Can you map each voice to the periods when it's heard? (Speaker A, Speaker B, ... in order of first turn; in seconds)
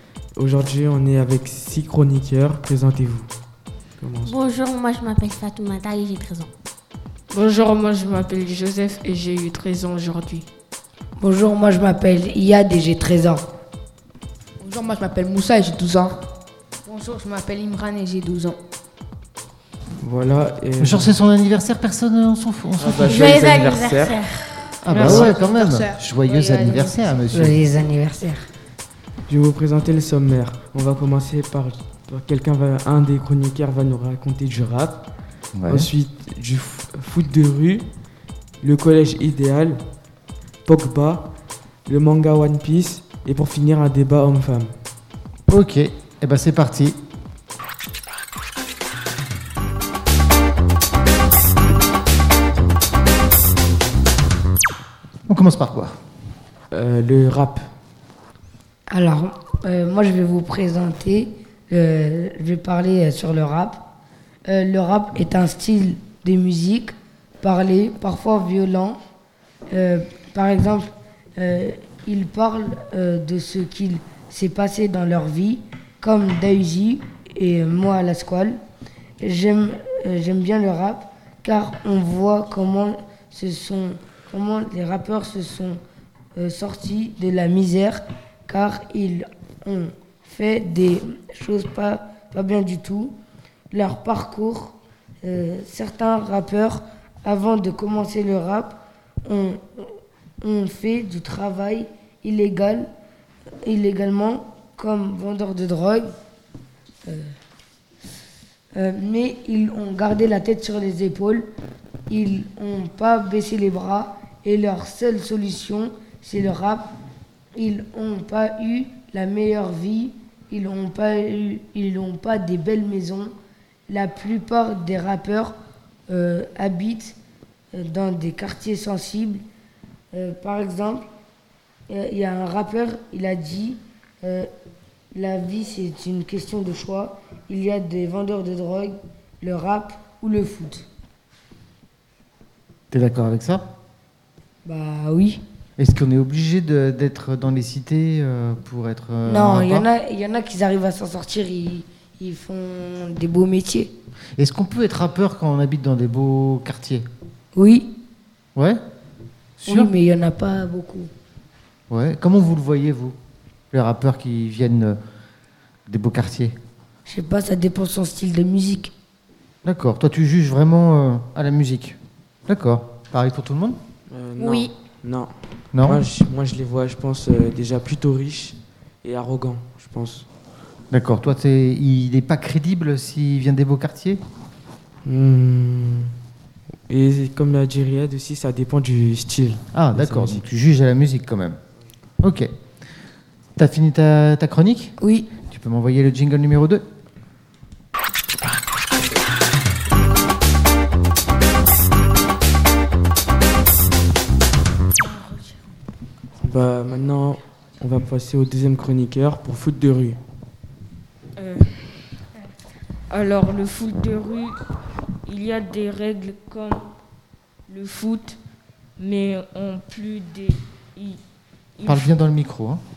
Speaker A: 0.4-3.3, 4.0-4.3, 20.0-21.1, 22.8-24.2, 24.9-25.3, 29.3-35.0, 35.7-37.9, 38.6-39.8, 40.6-41.3, 41.9-44.8, 56.7-57.7, 174.1-180.3, 185.0-186.1, 186.9-190.4, 206.4-210.2
Speaker B: 4.2-6.5, 23.0-24.8, 174.4-174.7
Speaker C: 7.3-10.5, 24.9-25.3, 211.4-212.1, 213.1-214.6, 215.2-216.9, 217.7-218.4, 219.0-221.2, 221.8-222.2
Speaker D: 11.2-13.4, 27.3-28.5, 58.9-63.8, 64.5-69.0, 69.7-78.6, 79.2-85.8, 86.3-93.2, 93.7-102.9, 103.6-106.1, 107.0-107.3, 108.7-111.5, 112.1-116.9, 117.5-123.3, 123.9-125.5, 126.1-127.2, 127.7-129.4, 130.1-131.1, 131.9-134.5, 135.1-140.8, 144.6-145.4, 149.2-153.9, 157.5-157.9, 159.7-161.1, 167.0-168.9, 195.0-195.3
Speaker E: 14.6-16.2, 25.0-26.0
Speaker F: 16.8-18.6, 26.2-27.2, 204.9-205.7
Speaker G: 20.8-23.2, 24.8-27.6, 35.5-35.9, 45.5-47.0, 55.3-56.0, 142.9-143.7, 145.8-149.9, 154.4-157.1, 158.5-158.8, 159.6-159.9, 161.9-163.2, 163.7-165.0, 165.9-166.6, 169.6-173.8, 175.7-176.0, 180.9-184.2, 189.7-191.6, 192.2-192.5, 193.6-196.8, 221.8-222.8